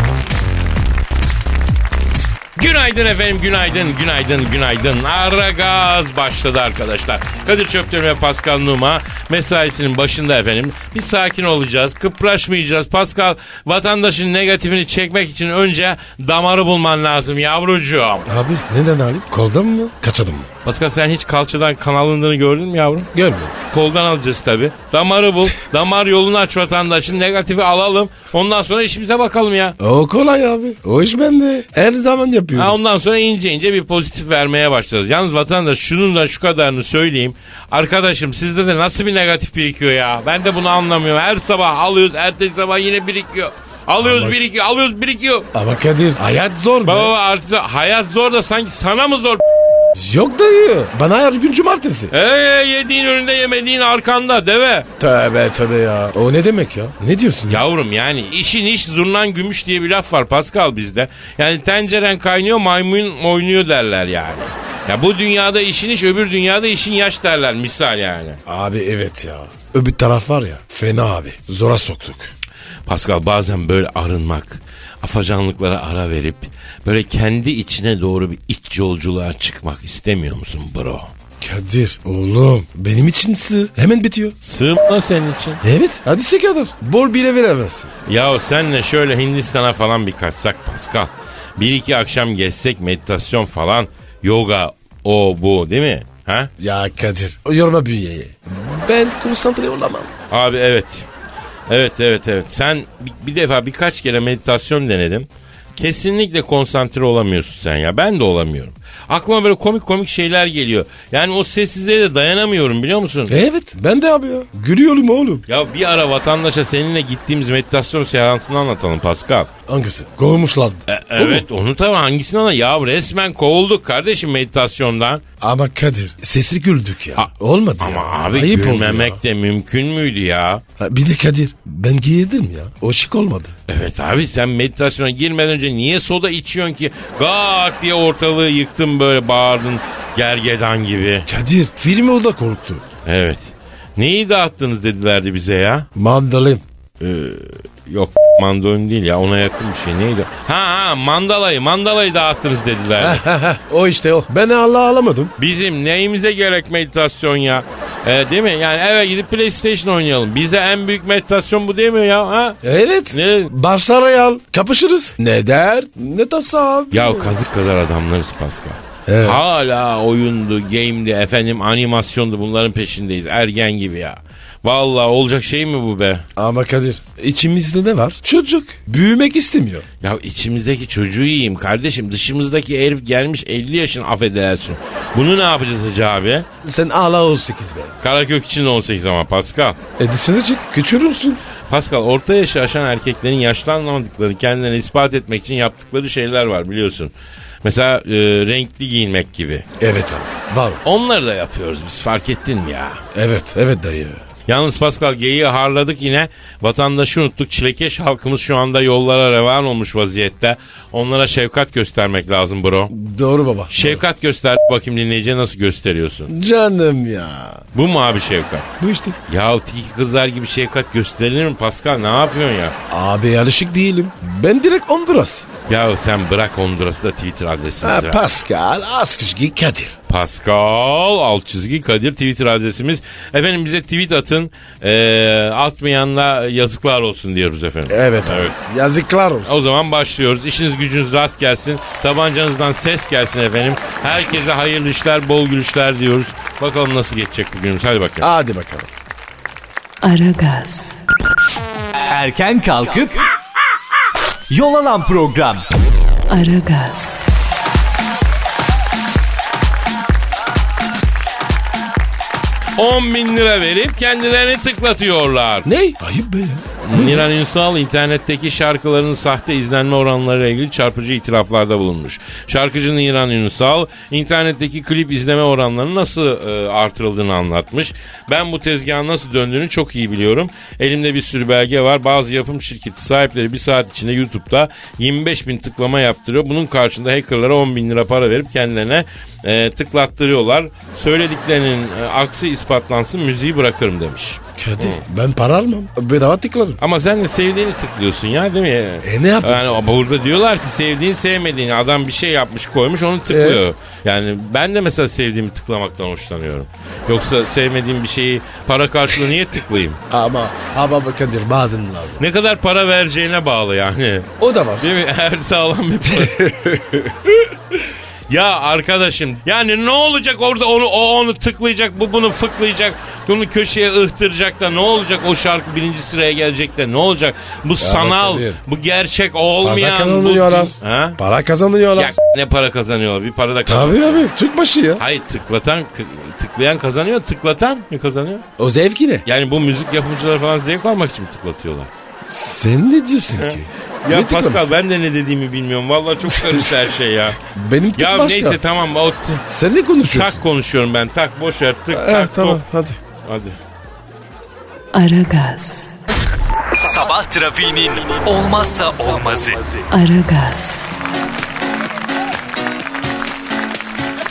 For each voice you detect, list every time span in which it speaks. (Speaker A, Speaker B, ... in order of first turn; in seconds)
Speaker A: 2.6-18.3, 20.6-23.1, 23.7-29.8, 32.5-45.5, 46.9-49.4, 52.1-54.9, 57.5-68.4, 72.9-81.1, 84.4-85.6, 88.1-96.5, 100.3-101.1, 101.7-113.4, 115.5-119.5, 120.9-125.2, 127.2-130.6, 133.7-141.3, 143.1-145.9, 147.0-153.2, 155.4-162.6, 163.1-163.5, 166.9-176.2, 180.0-186.5, 188.0-189.8, 191.7-197.1, 197.6-199.7, 200.8-203.0, 204.5-212.9, 213.7-216.3, 217.8-218.7, 219.3-222.8, 225.7-228.2, 230.1-238.5, 239.4-248.3, 262.8-265.7, 266.8-295.0, 296.8-310.0, 312.2-316.5, 318.3-331.2, 332.0-334.3, 335.0-338.5, 339.3-341.9, 343.4-347.4, 348.0-349.4, 350.1-352.6, 353.2-353.6
Speaker B: 18.3-20.5, 23.1-23.6, 29.8-32.8, 44.0-44.4, 45.5-47.1, 50.0-52.1, 55.0-57.6, 68.5-72.3, 81.4-84.3, 85.6-87.9, 96.6-100.1, 113.3-115.5, 119.7-121.5, 125.4-129.2, 130.8-133.6, 141.3-142.8, 145.9-146.6, 153.0-155.3, 162.6-167.3, 169.1-169.4, 176.4-179.9, 186.6-187.9, 190.0-191.4, 199.8-200.8, 203.1-204.2, 212.9-214.0, 216.3-217.6, 218.8-219.2, 222.9-225.5, 227.8-230.0, 237.9-239.6, 248.2-248.9, 265.6-267.3, 294.6-296.8, 299.0-299.8, 303.3-303.6, 310.1-312.2, 314.4-314.9, 316.0-317.4, 327.8-328.6, 329.6-332.1, 333.7-335.0, 338.6-339.2, 342.3-344.7, 346.3-346.8, 347.4-348.6, 349.5-350.4, 351.9-353.0
Speaker C: 250.0-251.0, 256.3-257.2, 354.9-355.9, 359.9-360.9
Speaker D: 252.1-253.2, 254.5-255.7, 356.7-359.8